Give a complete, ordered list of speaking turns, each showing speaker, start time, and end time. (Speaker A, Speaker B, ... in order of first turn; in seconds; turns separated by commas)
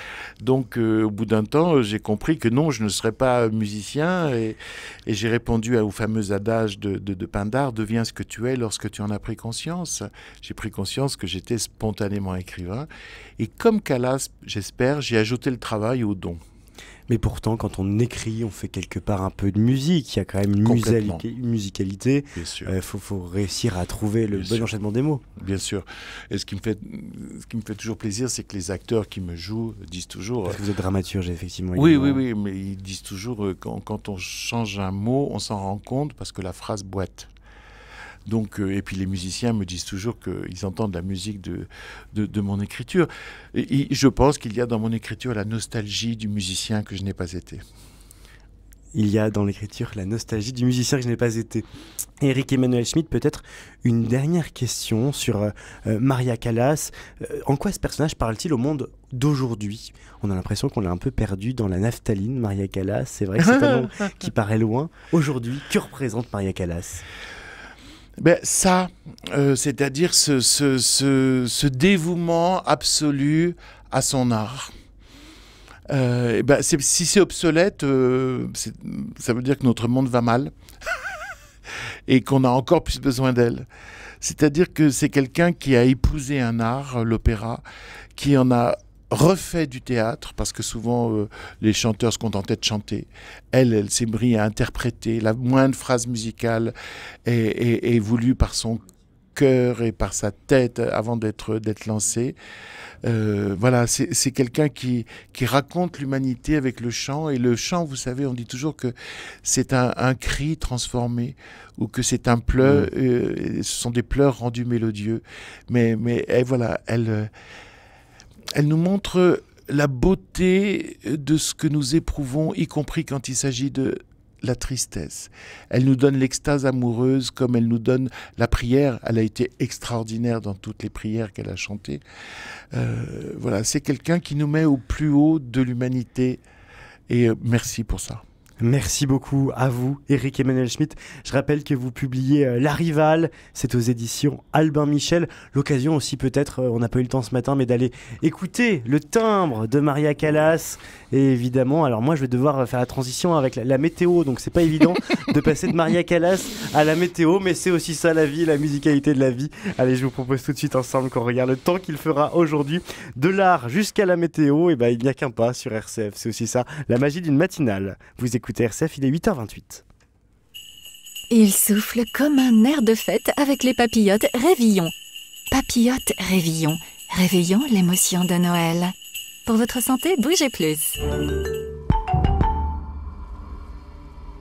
Speaker A: 0.4-16.4, Speaker B: 17.1-25.2, Speaker A: 20.6-21.2, Speaker A: 22.4-22.7, Speaker A: 24.3-24.7, Speaker A: 25.4-30.6, Speaker B: 30.4-32.2, Speaker A: 31.7-37.3, Speaker A: 38.3-47.6, Speaker B: 48.9-51.6, Speaker B: 52.2-67.0, Speaker A: 63.4-64.1, Speaker A: 68.2-74.7, Speaker A: 75.9-81.2, Speaker A: 82.1-83.7, Speaker A: 84.2-87.6, Speaker A: 88.2-96.7, Speaker A: 97.3-98.8, Speaker A: 99.3-102.4, Speaker A: 103.0-117.3, Speaker B: 112.6-112.9, Speaker A: 118.6-132.0, Speaker A: 132.7-136.4, Speaker A: 137.1-138.2, Speaker B: 138.6-169.8, Speaker C: 171.3-174.9, Speaker C: 175.5-178.9, Speaker C: 179.5-181.0